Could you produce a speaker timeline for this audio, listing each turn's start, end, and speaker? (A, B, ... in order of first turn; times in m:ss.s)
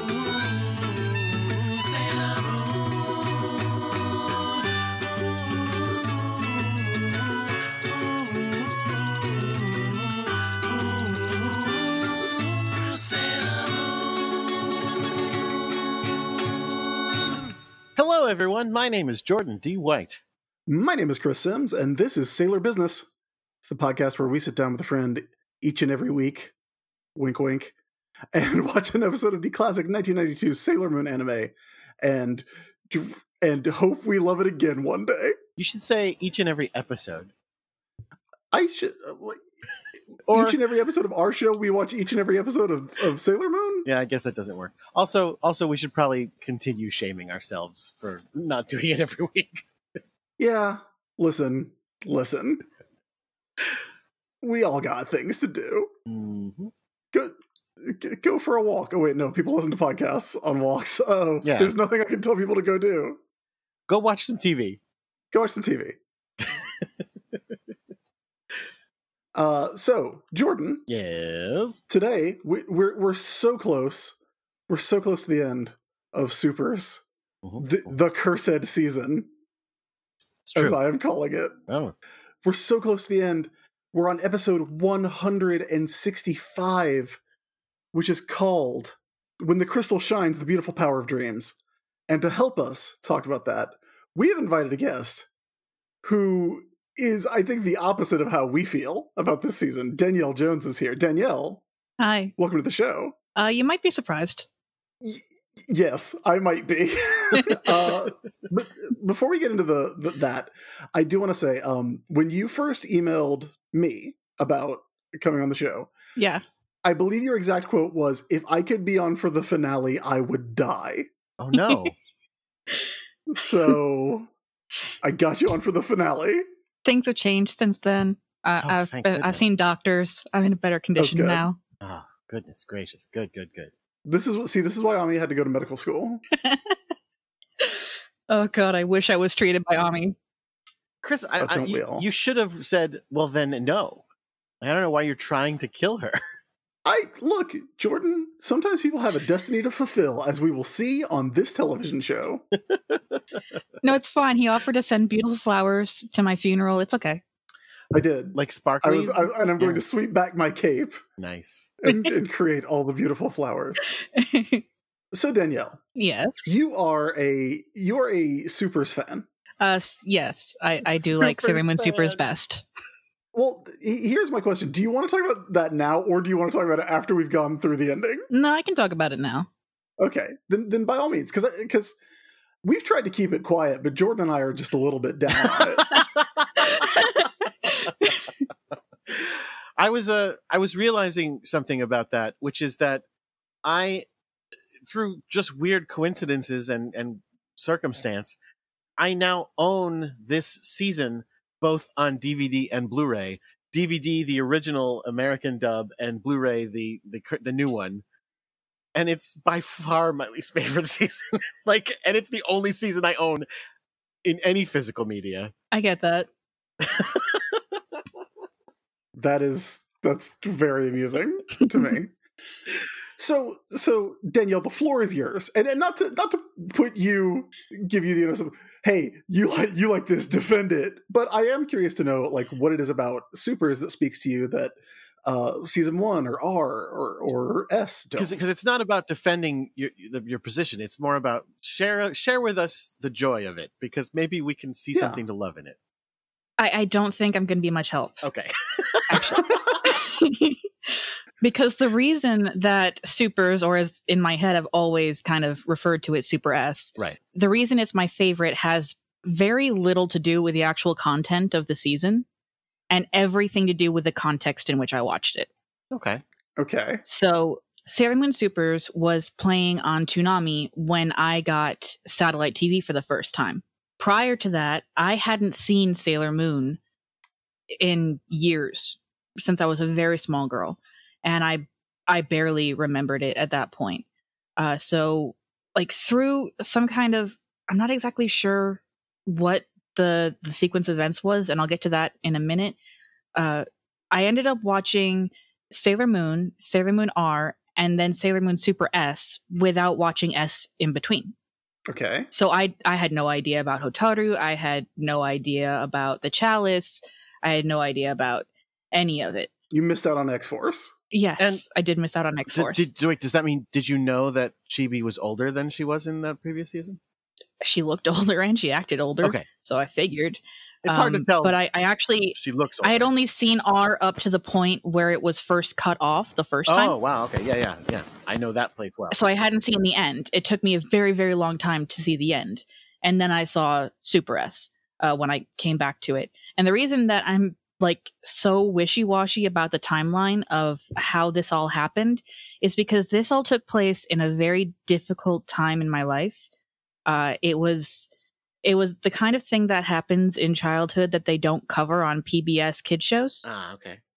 0:13.1-0:13.4 A
0:18.0-0:20.2 A
0:20.7-0:23.1 B
0:23.6-0:26.5 B
0:27.2-0:27.7 B
0:28.3-0:35.4 B
0:35.6-0:37.3 A
0:38.5-0:39.4 B
0:40.3-0:40.6 A
0:40.3-0:43.9 B
0:43.8-0:49.6 A
0:50.4-0:52.6 B
0:54.4-0:55.9 B
0:56.1-0:56.7 A
0:57.1-1:03.2 B
1:01.4-1:01.7 A
1:03.9-1:04.8 A
1:05.3-1:06.0 B
1:09.3-1:10.8 B
1:10.9-1:11.8 A
1:11.9-1:14.2 B
1:14.7-1:17.0 B
1:17.4-1:17.7 A
1:17.6-1:19.3 B
1:20.4-1:20.8 A
1:20.6-1:21.6 B
1:21.7-1:21.9 A
1:22.4-1:27.2 B
1:27.9-1:31.6 B
1:32.1-1:35.3 B
1:36.0-1:41.6 B
1:42.0-1:42.3 C
1:42.4-1:43.1 B
1:43.3-1:44.4 C
1:45.0-1:55.9 B
1:47.3-1:47.7 C
1:56.2-1:56.4 C
1:56.8-2:01.1 B
2:01.4-2:02.0 A
2:01.5-2:01.9 C
2:03.3-2:04.3 B
2:05.0-2:06.4 B
2:06.8-2:11.6 C
2:08.6-2:09.4 A
2:11.0-2:11.4 B
2:11.8-2:13.7 A
2:14.0-2:16.2 B
2:16.3-2:16.8 C
2:17.6-2:20.2 C
2:21.0-2:24.0 A
2:21.4-2:22.0 B
2:24.6-2:26.2 A
2:26.8-2:32.4 B
2:32.7-2:33.2 A
2:33.8-2:37.2 C
2:37.9-2:41.0 B
2:38.3-2:39.8 A
2:41.2-2:41.7 A
2:41.8-2:43.9 B
2:41.9-2:42.1 C
2:43.9-2:44.6 C
2:45.1-2:45.8 B
2:46.0-2:46.5 C
2:46.5-2:49.2 B
2:49.6-2:52.6 C
2:50.8-2:52.2 A
2:53.3-2:58.3 B
2:58.3-2:59.5 C
3:00.0-3:02.0 B
3:02.6-3:05.9 B
3:06.2-3:06.7 A
3:06.6-3:08.2 C
3:09.1-3:13.0 A
3:13.6-3:14.0 A
3:14.9-3:18.4 A
3:19.0-3:28.0 A
3:28.9-3:33.5 A
3:34.2-3:35.5 A
3:35.7-3:36.3 C
3:36.8-3:37.6 A
3:39.2-3:42.1 B
3:43.2-3:54.7 B
3:55.2-3:58.4 B
3:58.2-4:05.8 A
4:04.9-4:05.2 B
4:06.6-4:08.2 C
4:08.2-4:09.4 A
4:09.1-4:22.2 C
4:09.4-4:09.8 B
4:22.9-4:25.5 C
4:25.9-4:26.2 A
4:26.6-4:27.0 B
4:27.1-4:36.8 C
4:37.8-4:44.0 C
4:44.6-4:52.8 C
4:53.4-5:01.3 C
5:01.9-5:02.3 B
5:02.3-5:09.5 C
5:09.7-5:10.9 B
5:11.1-5:12.9 C
5:12.5-5:17.0 A
5:17.6-5:26.9 C
5:20.8-5:21.6 A
5:22.3-5:23.1 A
5:26.7-5:29.2 A
5:29.1-5:46.5 C
5:47.1-5:48.1 C
5:48.6-5:53.4 C
5:53.4-5:54.0 A